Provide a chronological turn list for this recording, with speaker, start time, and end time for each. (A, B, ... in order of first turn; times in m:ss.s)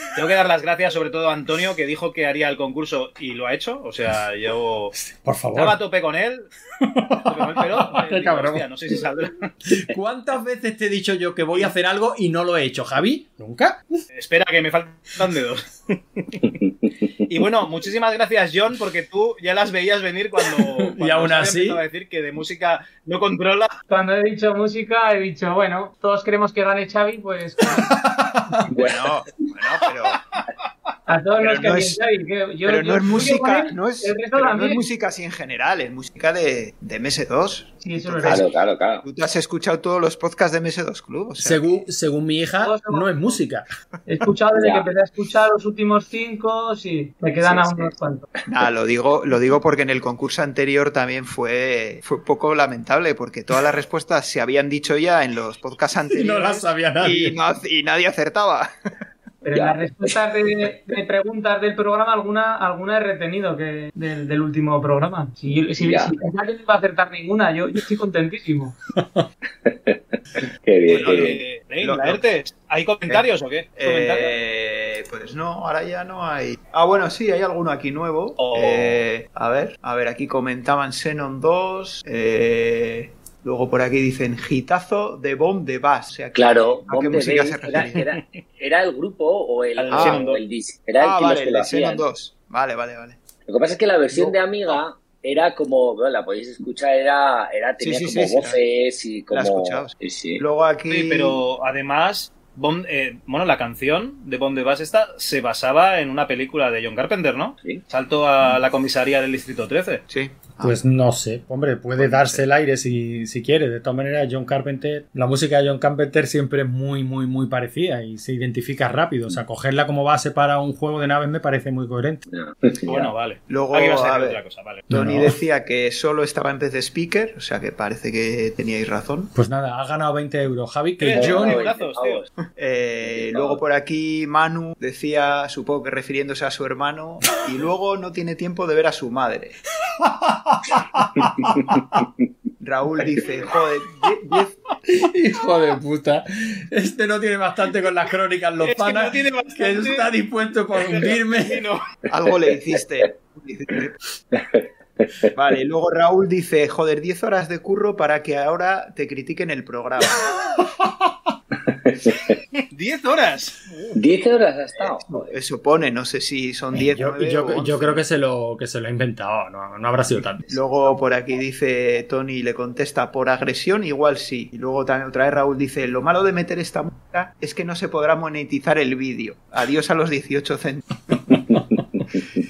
0:00.1-0:05.0 A
0:05.1-0:05.8 B
0:05.5-0:06.5 A
0:06.8-0:08.6 B
0:07.2-0:09.5 A
0:09.6-0:13.8 B
0:14.1-0:16.5 A
0:17.3-0:23.7 A
0:20.6-0:21.8 B
0:23.9-0:27.9 C
0:27.8-0:28.7 B
0:28.7-0:29.2 D
0:28.7-0:30.2 E
0:31.1-0:34.8 C
0:31.4-0:32.0 E
0:32.6-0:41.8 E
0:37.8-0:38.4 C
0:38.2-0:39.0 D
0:41.4-0:43.7 B
0:42.6-0:43.4 C
0:44.0-0:48.2 C
0:44.5-0:44.8 D
0:47.4-0:47.9 D
0:48.5-0:58.7 E
0:56.1-0:57.4 B
0:59.4-1:08.7 C
0:59.5-1:00.2 D
1:05.8-1:06.1 D
1:09.0-1:09.2 B
1:09.6-1:11.4 D
1:10.9-1:12.2 E
1:11.0-1:14.3 A
1:13.8-1:28.0 E
1:18.4-1:19.0 A
1:26.3-1:32.0 D
1:29.8-1:30.4 A
1:29.9-1:30.2 E
1:31.0-1:33.2 E
1:33.5-1:40.4 D
1:34.1-1:34.4 E
1:37.8-1:38.6 E
1:39.3-1:41.4 E
1:40.9-1:50.0 A
1:50.1-1:50.8 E
1:50.6-2:02.2 B
2:02.3-2:03.1 D
2:02.8-2:04.9 A
2:03.5-2:09.3 E
2:04.9-2:05.4 B
2:09.3-2:11.7 B
2:11.0-2:12.3 A
2:11.1-2:12.2 D
2:12.5-2:19.6 E
2:13.0-2:13.6 D
2:20.0-2:22.0 B
2:22.6-2:24.6 E
2:24.9-2:31.6 B
2:28.6-2:30.2 A
2:30.7-2:31.8 A
2:32.1-2:34.0 E
2:34.3-2:35.1 D
2:35.3-2:40.6 E
2:40.8-2:41.1 B
2:41.7-2:42.3 D
2:42.7-2:43.6 A
2:43.9-2:45.3 D
2:45.1-2:48.0 E
2:46.7-2:50.6 B
2:50.4-3:00.8 E
3:01.4-3:02.2 D